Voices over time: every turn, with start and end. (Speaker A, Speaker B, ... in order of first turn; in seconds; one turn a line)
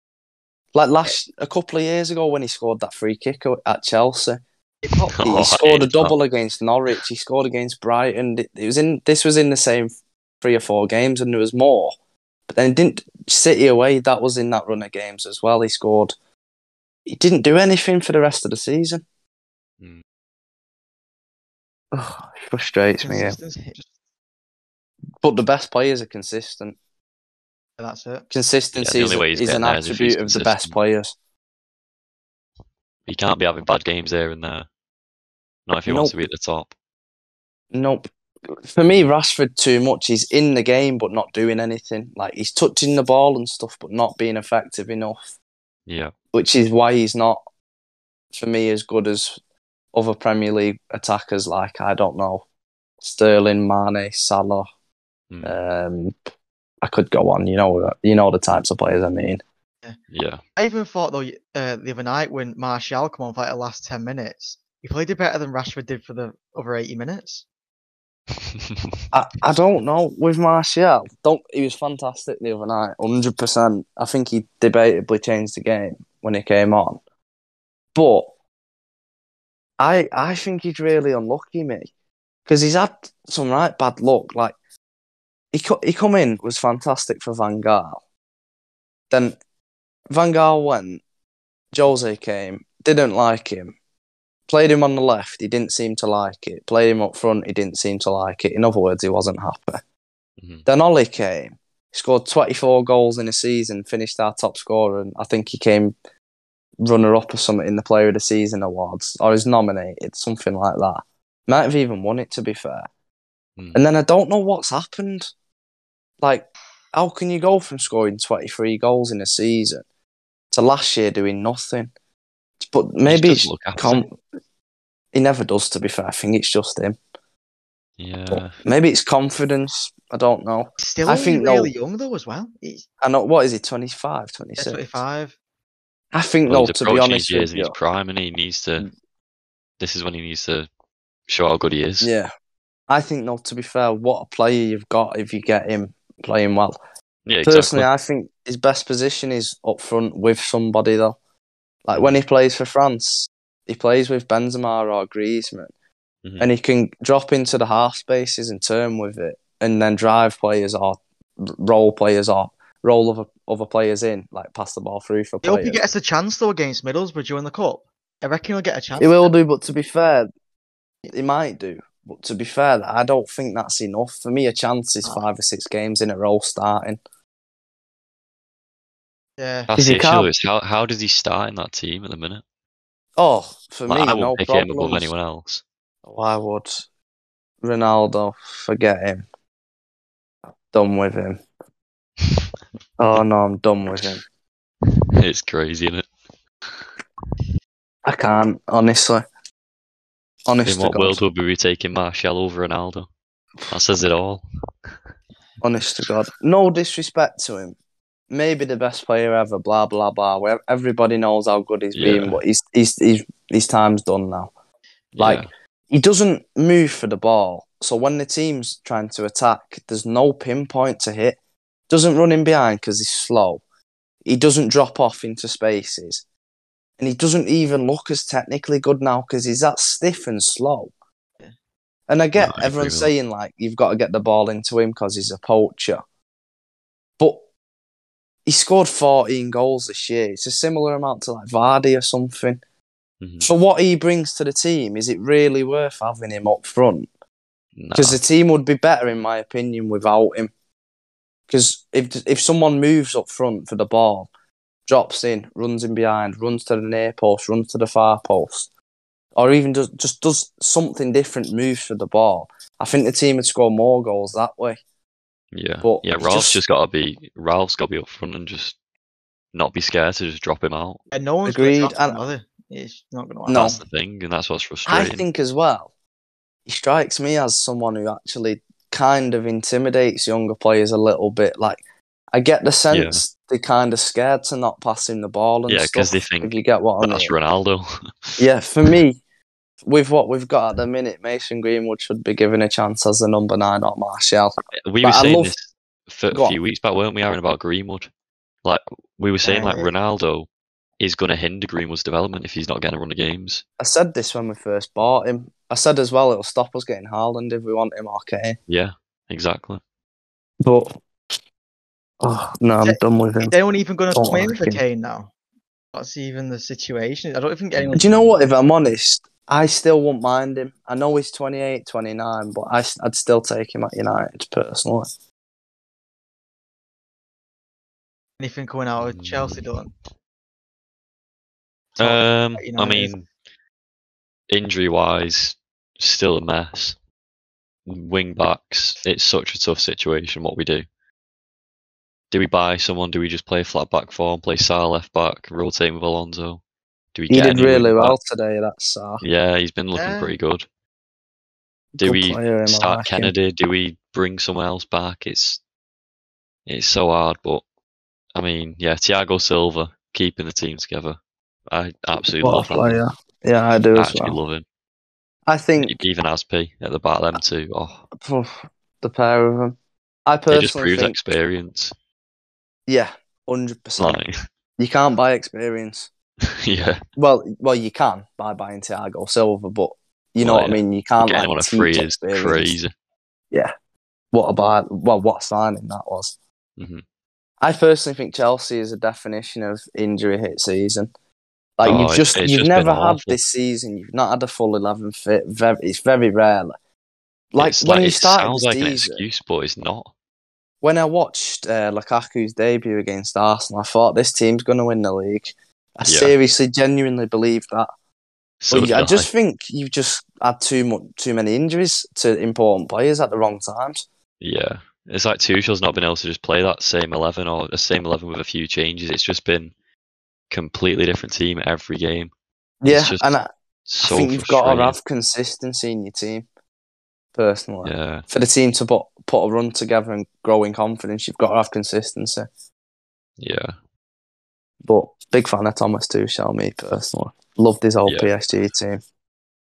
Speaker A: 0.7-4.4
Speaker B: 4.8-5.2
Speaker C: 5.1-6.1
Speaker A: 5.2-11.9
Speaker A: 12.5-16.1
Speaker A: 17.1-19.0
Speaker A: 21.9-23.4
Speaker B: 23.0-23.9
Speaker A: 25.2-26.8
Speaker B: 27.8-28.3
Speaker A: 28.3-31.1
Speaker C: 28.7-30.8
Speaker C: 33.1-34.7
Speaker C: 35.7-36.7
Speaker A: 35.9-36.1
Speaker A: 37.7-38.1
Speaker A: 38.6-45.3
Speaker C: 45.9-46.1
Speaker A: 46.3-47.4
Speaker A: 48.3-49.4
Speaker A: 49.9-52.4
Speaker A: 53.0-54.7
Speaker C: 55.3-55.6
Speaker A: 55.4-56.1
Speaker A: 56.8-59.4
Speaker C: 60.1-60.4
Speaker B: 60.6-67.4
Speaker C: 68.5-68.9
Speaker A: 69.1-77.0
Speaker A: 77.9-78.3
Speaker A: 79.8-81.9
Speaker A: 82.5-84.5
Speaker A: 85.5-88.0
Speaker A: 89.1-89.4
Speaker A: 90.1-91.0
Speaker A: 91.7-93.8
Speaker A: 94.5-99.8
Speaker C: 100.4-100.7
Speaker A: 100.7-105.9
Speaker A: 106.8-112.9
Speaker C: 113.6-113.8
Speaker A: 113.8-115.3
Speaker A: 116.2-119.8
Speaker A: 120.5-121.9
Speaker A: 122.6-124.2
Speaker C: 123.0-124.0
Speaker A: 125.1-127.0
Speaker C: 128.0-128.6
Speaker A: 128.3-131.7
Speaker B: 130.8-132.8
Speaker A: 133.0-135.0
Speaker B: 134.6-135.3
Speaker A: 136.1-137.8
Speaker C: 136.5-138.9
Speaker C: 139.8-140.7
Speaker C: 141.3-142.1
Speaker A: 142.0-142.3
Speaker A: 142.9-146.8
Speaker C: 147.3-147.9
Speaker A: 147.4-151.2
Speaker A: 151.8-155.7
Speaker A: 156.4-165.8
Speaker B: 165.4-169.3
Speaker A: 169.0-170.3
Speaker A: 171.1-177.0
Speaker B: 179.4-179.7
Speaker C: 179.7-182.4
Speaker A: 179.8-180.3
Speaker A: 183.2-185.1
Speaker C: 183.9-185.6
Speaker A: 186.0-186.9
Speaker A: 187.6-189.2
Speaker A: 190.7-191.4
Speaker A: 193.0-194.2
Speaker C: 194.9-196.1
Speaker A: 198.1-199.2
Speaker A: 200.5-201.2
Speaker C: 200.6-203.1
Speaker C: 203.7-204.4
Speaker A: 205.6-207.8
Speaker A: 208.3-214.5
Speaker C: 211.9-212.4
Speaker C: 215.1-215.5
Speaker A: 215.2-221.4
Speaker A: 221.9-223.6
Speaker A: 224.2-226.2
Speaker A: 227.0-230.9
Speaker A: 232.1-236.0
Speaker C: 232.4-233.1
Speaker A: 238.5-242.6
Speaker C: 243.2-243.5
Speaker A: 243.4-247.1
Speaker C: 247.8-248.2
Speaker A: 247.9-250.5
Speaker A: 251.5-254.3
Speaker A: 254.9-258.7
Speaker A: 259.4-264.8
Speaker C: 265.5-268.8
Speaker A: 265.8-266.6
Speaker C: 269.5-271.0
Speaker B: 271.1-273.8
Speaker A: 271.4-272.2
Speaker A: 273.5-273.8
Speaker C: 273.5-275.2
Speaker A: 274.9-275.9
Speaker A: 276.6-281.8
Speaker A: 282.3-287.3
Speaker C: 282.9-283.2
Speaker C: 285.7-288.9
Speaker A: 288.4-289.2
Speaker A: 289.8-295.5
Speaker C: 294.9-298.1
Speaker A: 296.3-296.6
Speaker C: 298.6-300.5
Speaker B: 299.4-299.9
Speaker C: 301.0-303.6
Speaker A: 303.8-308.6
Speaker C: 308.7-309.8
Speaker A: 310.6-311.0
Speaker A: 312.2-313.6
Speaker B: 312.8-315.3
Speaker A: 314.1-314.8
Speaker B: 315.9-318.1
Speaker C: 317.8-318.3
Speaker A: 318.0-325.1
Speaker B: 328.4-329.9
Speaker C: 329.0-329.7
Speaker B: 332.0-333.1
Speaker C: 332.0-333.3
Speaker C: 334.5-337.0
Speaker C: 337.9-340.9
Speaker C: 342.3-346.6
Speaker C: 347.1-348.1
Speaker A: 347.3-349.2
Speaker C: 349.2-350.6
Speaker B: 349.9-350.4
Speaker A: 351.9-353.3
Speaker C: 352.0-355.6
Speaker C: 356.6-357.6
Speaker C: 358.4-361.2
Speaker C: 361.7-363.0
Speaker A: 362.4-364.4
Speaker C: 363.9-364.6
Speaker A: 365.5-366.0
Speaker C: 365.8-368.0
Speaker A: 368.1-371.1
Speaker C: 370.5-371.9
Speaker A: 372.9-374.2
Speaker C: 374.0-374.3
Speaker A: 374.8-376.1
Speaker C: 376.6-377.0
Speaker A: 377.1-382.8
Speaker C: 380.4-382.9
Speaker A: 384.3-386.4
Speaker C: 386.8-387.0
Speaker A: 387.6-391.1
Speaker A: 391.8-396.8
Speaker C: 391.8-393.4
Speaker A: 397.5-399.2
Speaker C: 397.6-400.1
Speaker A: 400.8-407.9
Speaker C: 406.1-406.3
Speaker C: 408.6-409.3
Speaker A: 408.7-414.1
Speaker C: 414.4-419.7
Speaker C: 420.5-422.3
Speaker A: 422.8-423.5
Speaker C: 422.9-423.3
Speaker C: 423.9-425.0
Speaker A: 424.0-426.5
Speaker A: 427.4-432.5
Speaker C: 427.8-428.2
Speaker C: 433.4-433.7
Speaker A: 434.8-439.0